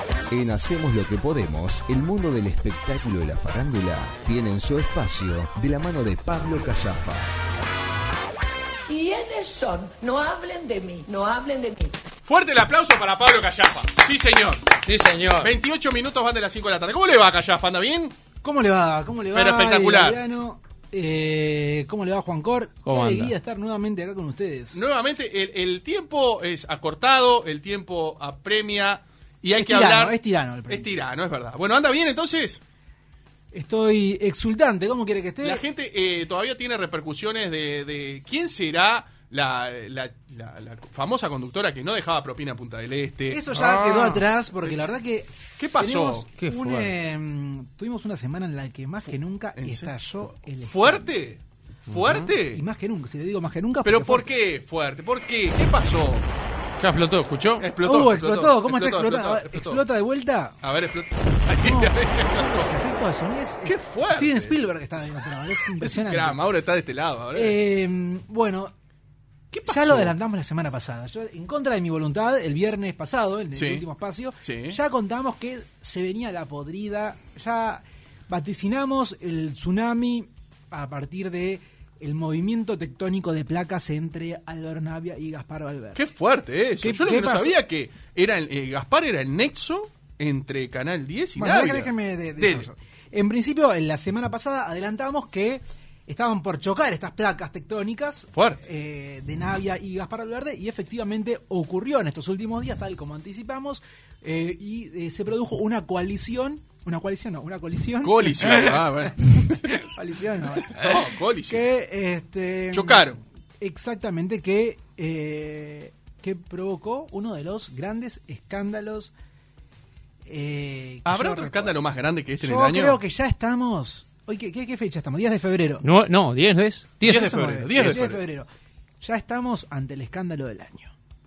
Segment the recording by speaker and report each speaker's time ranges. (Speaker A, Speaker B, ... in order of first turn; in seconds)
Speaker A: 0.3-7.3
Speaker B: 8.9-11.9
Speaker C: 12.2-14.8, 15.4-18.1, 19.3-20.2, 24.7-30.1, 30.7-32.6, 35.4-43.5, 44.6-44.9, 45.6-46.3, 49.6-49.9, 50.6-52.6, 53.8-56.3, 57.6-59.8, 60.6-62.7, 63.6-64.6, 65.7-67.6, 69.5-70.1, 73.5-73.8, 74.4-74.8, 85.9-92.7, 98.3-98.6, 108.0-109.8, 110.7-111.6, 112.7-113.2, 121.0-123.0, 127.0-128.2
Speaker D: 14.8-15.5, 22.8-23.3, 43.5-44.2, 46.4-46.9, 51.9-52.2, 56.8-57.6, 125.8-128.0
Speaker E: 18.4-24.9, 29.6-31.0, 33.5-35.6, 43.3-51.0, 52.5-54.3, 57.8-60.5, 61.6-61.9, 62.5-66.5, 67.3-68.7, 69.6-86.0, 86.8-87.6, 91.4-113.1, 113.6-119.1, 120.2-121.8, 122.4-125.8, 127.0-128.5, 129.0-130.9